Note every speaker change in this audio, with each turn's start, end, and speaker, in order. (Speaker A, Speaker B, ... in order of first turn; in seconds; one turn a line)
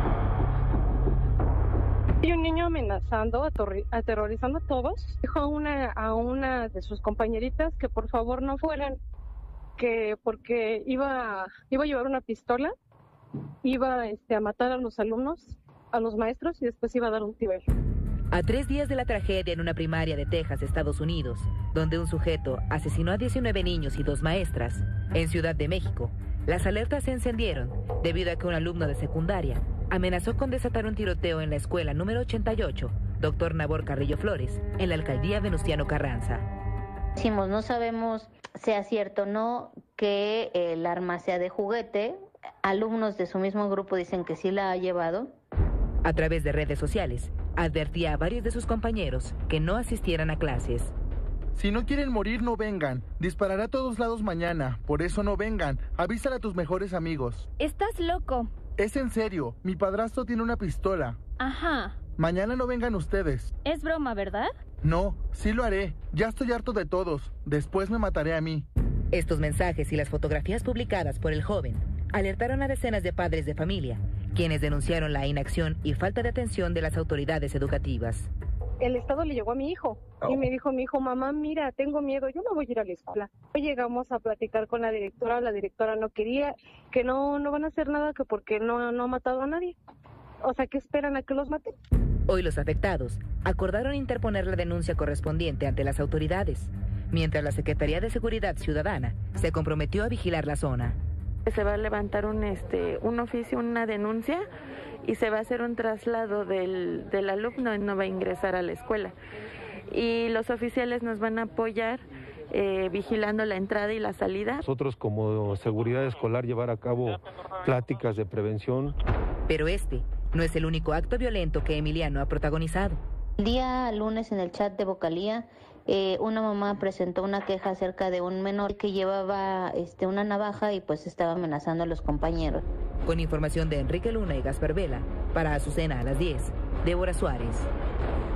Speaker A: 2.2-9.0
Speaker A: 9.8-12.7
Speaker A: 13.6-17.6
Speaker B: 18.3-36.5
Speaker C: 37.2-45.3
Speaker B: 46.0-50.9
Speaker D: 51.5-57.5
Speaker E: 57.6-58.5
Speaker D: 58.8-61.2
Speaker E: 61.4-62.0
Speaker D: 62.2-63.5
Speaker E: 63.6-64.5
Speaker D: 64.8-68.7
Speaker B: 69.1-78.3
Speaker A: 78.8-89.8
Speaker A: 90.4-91.7
Speaker B: 92.3-101.0
Speaker F: 101.5-104.5
Speaker F: 105.0-109.1
Speaker F: 109.9-114.6
Speaker G: 114.6-119.0
Speaker B: 119.5-123.0
Speaker C: 123.4-132.6
Speaker B: 133.1-137.7